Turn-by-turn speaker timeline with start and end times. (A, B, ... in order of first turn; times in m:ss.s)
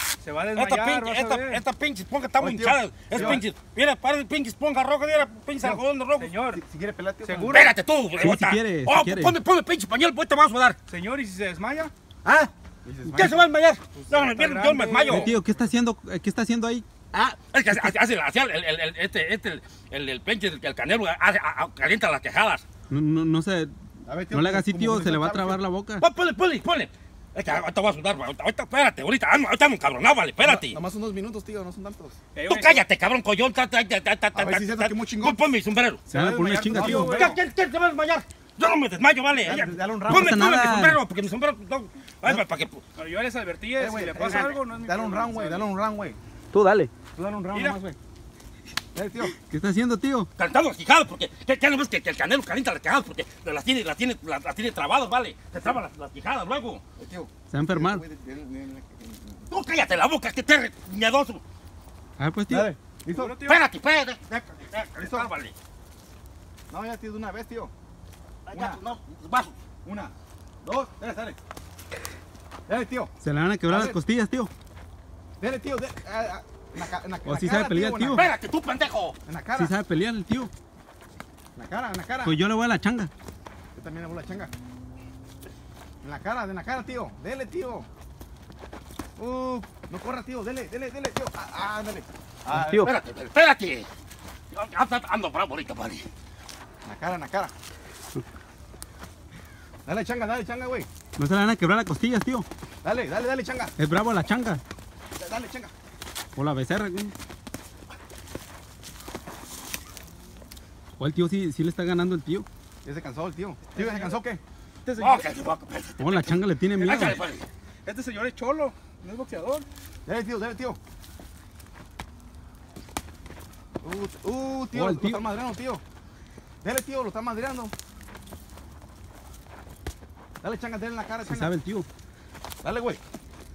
0:00.2-0:01.6 A
0:00.5-0:06.4 B
0:02.4-0:03.4 C
0:06.2-0:06.6 A
0:06.5-0:07.7 C
0:07.2-0:07.7 A
0:07.5-0:10.8 B
0:08.2-0:09.4 D
0:10.9-0:11.9 A
0:12.3-0:13.5 C
0:13.1-0:15.4 B
0:13.9-0:15.4 A
0:15.1-0:16.9 D
0:17.1-0:22.6 B
0:22.9-0:23.7 D
0:24.1-0:25.6 C
0:24.3-0:26.0 D
0:26.0-0:30.8 B
0:30.4-0:32.2 C
0:32.3-0:32.8 A
0:32.4-0:36.0 B
0:34.3-0:35.4 C
0:36.1-0:37.4 A
0:36.1-0:37.2 D
0:36.7-0:37.4 C
0:36.8-0:42.9 B
0:39.4-0:40.4 C
0:40.1-0:41.0 D
0:43.0-0:45.7 A
0:43.8-0:46.2 C
0:44.2-0:44.6 B
0:46.5-0:46.9 D
0:47.2-0:48.0 C
0:47.5-0:47.8 A
0:49.0-0:49.4 C
0:49.4-0:50.3 D
0:50.4-0:56.8 B
0:57.0-0:59.5 C
0:57.5-0:58.0 D
0:59.5-1:01.4 B
1:02.2-1:02.7 D
1:02.5-1:03.4 C
1:03.1-1:03.6 A
1:03.4-1:05.6 B
1:05.0-1:05.3 C
1:06.7-1:07.7 C
1:08.5-1:09.6 B
1:08.5-1:08.8 C
1:09.8-1:11.4 C
1:12.7-1:13.1 C
1:13.2-1:14.5 D
1:13.7-1:14.0 C
1:15.4-1:18.3 C
1:17.3-1:18.3 D
1:18.1-1:19.2 B
1:19.2-1:19.8 C
1:19.6-1:20.5 D
1:21.6-1:22.4 C
1:22.2-1:23.1 D
1:23.7-1:24.5 C
1:26.0-1:27.9 C
1:29.2-1:32.9 C
1:32.5-1:32.9 D
1:32.8-1:33.9 B
1:34.5-1:36.1 B
1:36.8-1:37.5 C
1:39.8-1:40.9 C
1:41.2-1:42.5 D
1:42.8-1:43.8 C
1:43.8-1:44.6 D
1:45.2-1:45.7 C
1:46.4-1:47.1 D
1:51.0-1:52.5 D
1:52.8-1:54.4 C
1:53.7-1:54.2 A
1:54.8-1:55.5 A
1:55.0-1:57.5 B
1:56.0-1:57.2 D
1:57.8-1:59.7 A
2:00.1-2:00.8 C
2:03.8-2:05.8 C
2:04.7-2:05.2 D
2:06.6-2:07.7 C
2:10.4-2:11.5 C
2:11.2-2:11.9 D
2:12.6-2:13.0 C